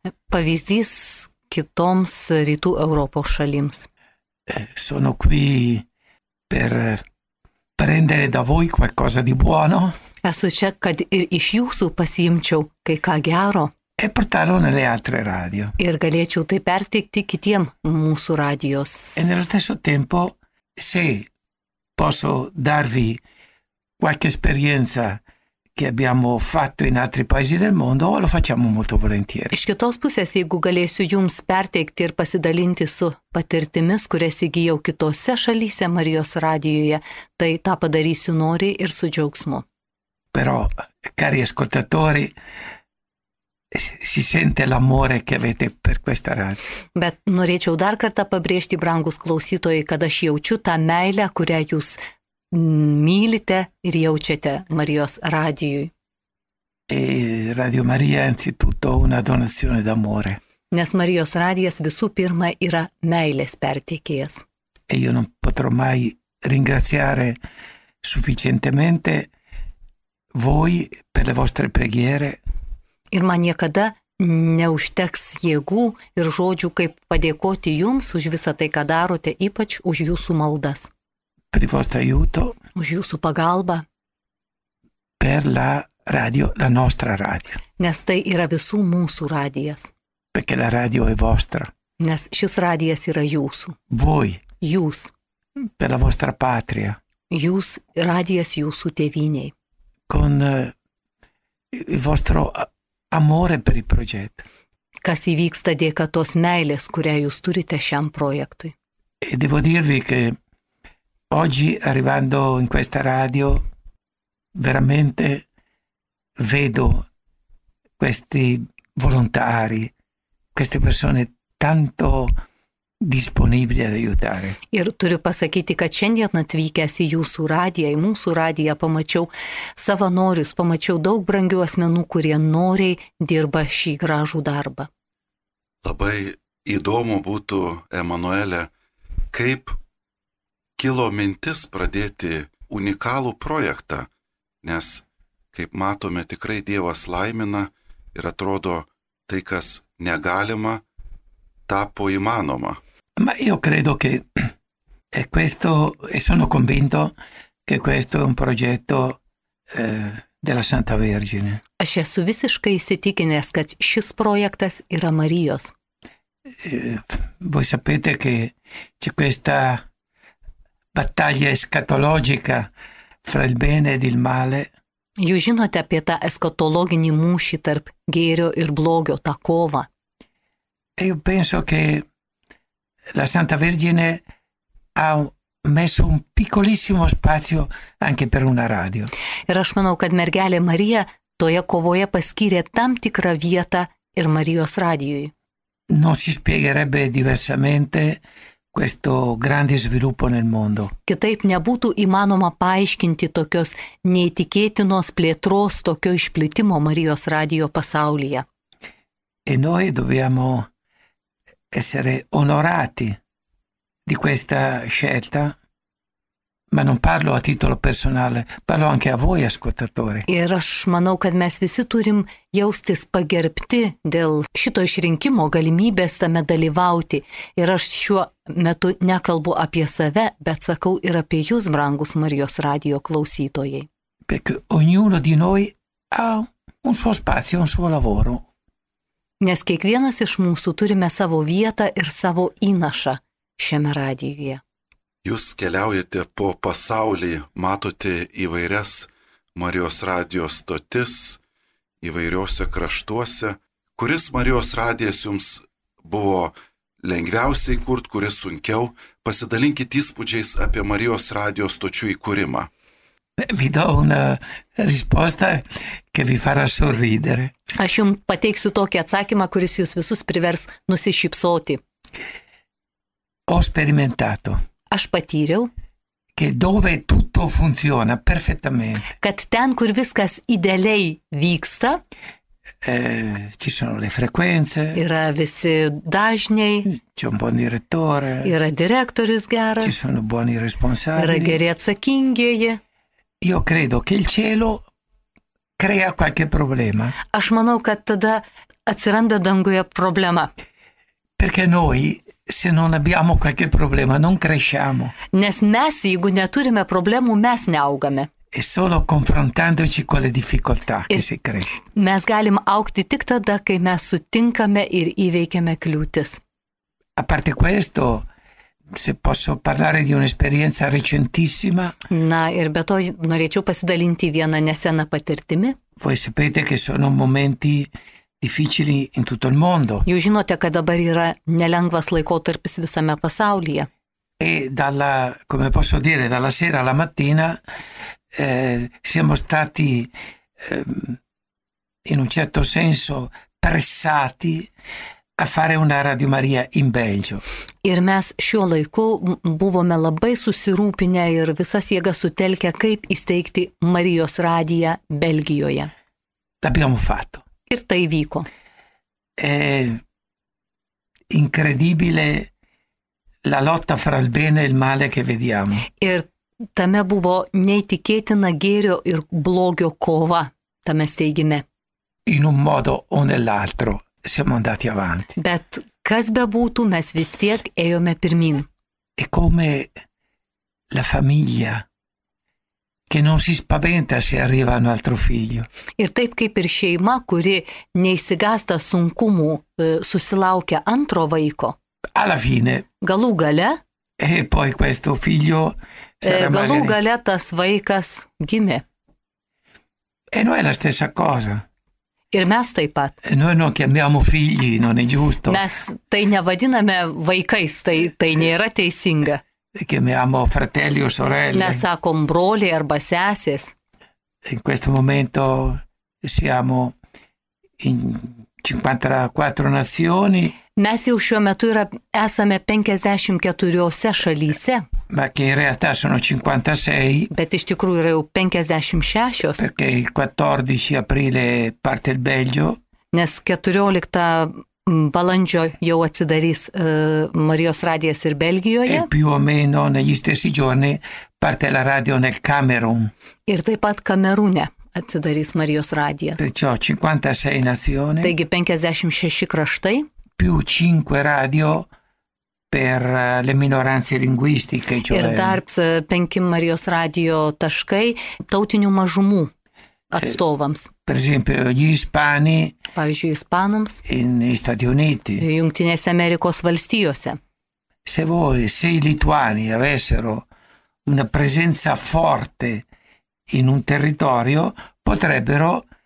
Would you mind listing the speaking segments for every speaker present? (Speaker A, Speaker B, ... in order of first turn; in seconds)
Speaker A: 0.3-3.9, 10.2-13.7, 15.8-19.3, 29.5-39.6, 46.9-52.0, 52.5-55.9, 60.7-64.4, 73.1-80.9, 82.8-83.8, 87.8-89.9, 92.0-93.8, 94.6-95.1, 97.3-99.5, 105.0-108.7, 124.7-134.9, 161.8-165.7, 175.2-179.9, 189.5-195.3, 201.1-208.4, 220.3-233.9, 239.4-244.6, 267.8-271.8, 274.9-275.7, 279.2-282.0, 284.9-286.9, 288.4-289.9, 291.2-292.8, 297.3-300.5, 305.3-308.3, 311.9-316.4, 322.1-325.8, 330.1-333.9, 347.8-355.9, 357.7-358.5, 366.0-371.6, 375.4-378.7, 386.0-391.8, 393.0-393.8, 396.2-398.8, 402.3-403.2, 405.5-409.4, 411.5-413.7, 420.8-424.8, 427.3-429.6, 433.1-439.1, 443.5-446.4, 448.2-450.1, 455.1-459.5, 460.1-460.9, 462.9-464.0, 465.4-467.4
Speaker B: 4.5-5.8, 6.5-7.0, 7.8-9.9, 14.0-15.8, 19.2-21.3, 21.9-23.2, 24.0-25.2, 25.7-29.5, 40.3-42.3, 43.7-46.6, 56.9-60.4, 64.9-67.4, 68.0-69.3, 70.3-72.4, 81.5-82.5, 85.2-87.6, 90.3-91.7, 93.9-94.4, 95.8-97.0, 100.1-100.7, 101.7-104.4, 109.2-110.4, 111.3-113.6, 114.5-115.4, 116.4-117.0, 118.0-119.9, 120.5-122.3, 123.0-124.6, 153.2-154.5, 155.1-157.1, 157.7-159.2, 159.7-161.6, 166.6-169.8, 170.9-172.7, 173.2-174.7, 181.0-182.1, 183.1-184.2, 184.9-189.1, 195.9-198.2, 198.7-200.9, 209.4-210.7, 211.7-213.2, 214.1-215.5, 216.7-220.2, 234.3-238.4, 263.4-267.5, 273.5-274.6, 276.4-279.1, 282.8-285.0, 286.9-288.5, 289.8-291.6, 293.4-294.8, 295.8-297.1, 301.4-305.1, 308.5-311.8, 317.2-318.2, 318.9-321.9, 326.0-327.9, 328.4-330.1, 334.4-337.6, 338.3-341.2, 342.0-344.7, 345.4-347.4, 356.6-357.4, 359.4-360.0, 361.3-362.5, 363.4-365.9, 372.2-375.3, 379.2-379.9, 380.9-381.8, 383.1-385.7, 392.1-392.9, 394.2-396.9, 400.3-401.6, 403.2-405.6, 409.8-411.8, 414.4-416.9, 417.8-420.6, 425.1-427.3, 429.6-432.8, 438.9-443.1, 446.4-448.3, 450.4-451.9, 452.7-455.6, 461.1-462.8, 464.1-465.4, 468.0-470.4, 471.0-472.8, 473.5-475.8
Speaker C: 135.8-138.7, 139.3-139.7, 140.8-144.1, 144.6-150.8, 151.7-152.8, 245.2-251.4, 252.0-262.7